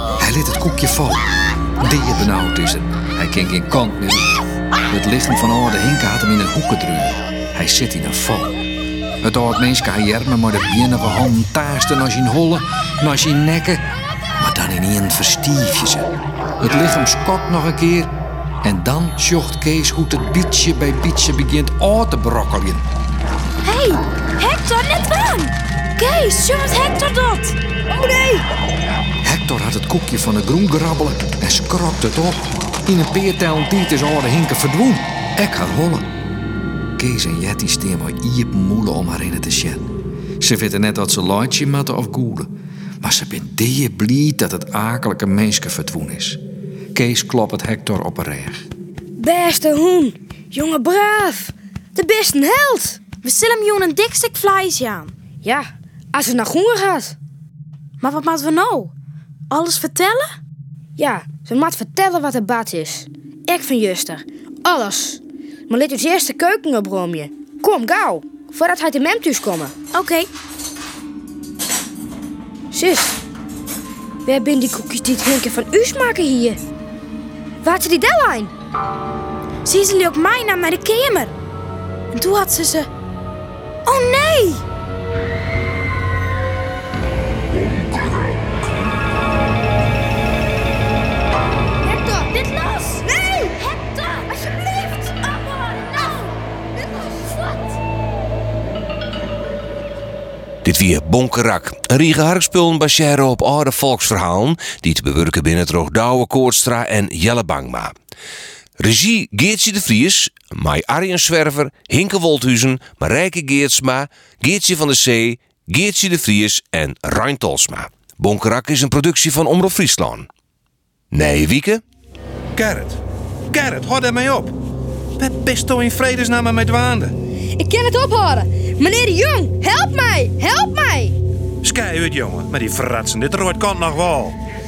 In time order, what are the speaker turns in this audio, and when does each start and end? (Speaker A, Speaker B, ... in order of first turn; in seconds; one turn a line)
Speaker A: 0.2-8.6
Speaker A: 9.2-18.1
Speaker A: 18.6-22.8
Speaker B: 23.6-27.6
Speaker C: 27.9-28.4
Speaker A: 29.2-36.1
Speaker A: 37.0-39.9
Speaker A: 40.4-42.5
Speaker A: 43.0-46.4
Speaker A: 46.9-48.7
Speaker C: 49.2-53.0
Speaker B: 53.2-55.1
Speaker C: 55.4-57.1
Speaker B: 58.0-58.9
Speaker B: 59.5-60.4
Speaker C: 61.0-69.7
Speaker B: 69.9-70.3
Speaker C: 72.7-73.2
Speaker C: 74.2-76.6
Speaker C: 77.6-78.5
Speaker B: 79.6-81.3
Speaker B: 82.1-82.9
Speaker B: 83.8-84.6
Speaker C: 91.8-92.4
Speaker B: 92.3-94.3
Speaker C: 93.0-93.6
Speaker C: 94.3-95.2
Speaker B: 95.5-96.1
Speaker C: 96.8-97.1
Speaker D: 100.6-107.9
Speaker D: 108.8-120.3
Speaker D: 121.1-121.8
Speaker E: 122.5-123.0
Speaker E: 123.5-124.5
Speaker E: 125.2-127.1
Speaker C: 127.5-131.2
Speaker E: 131.6-134.4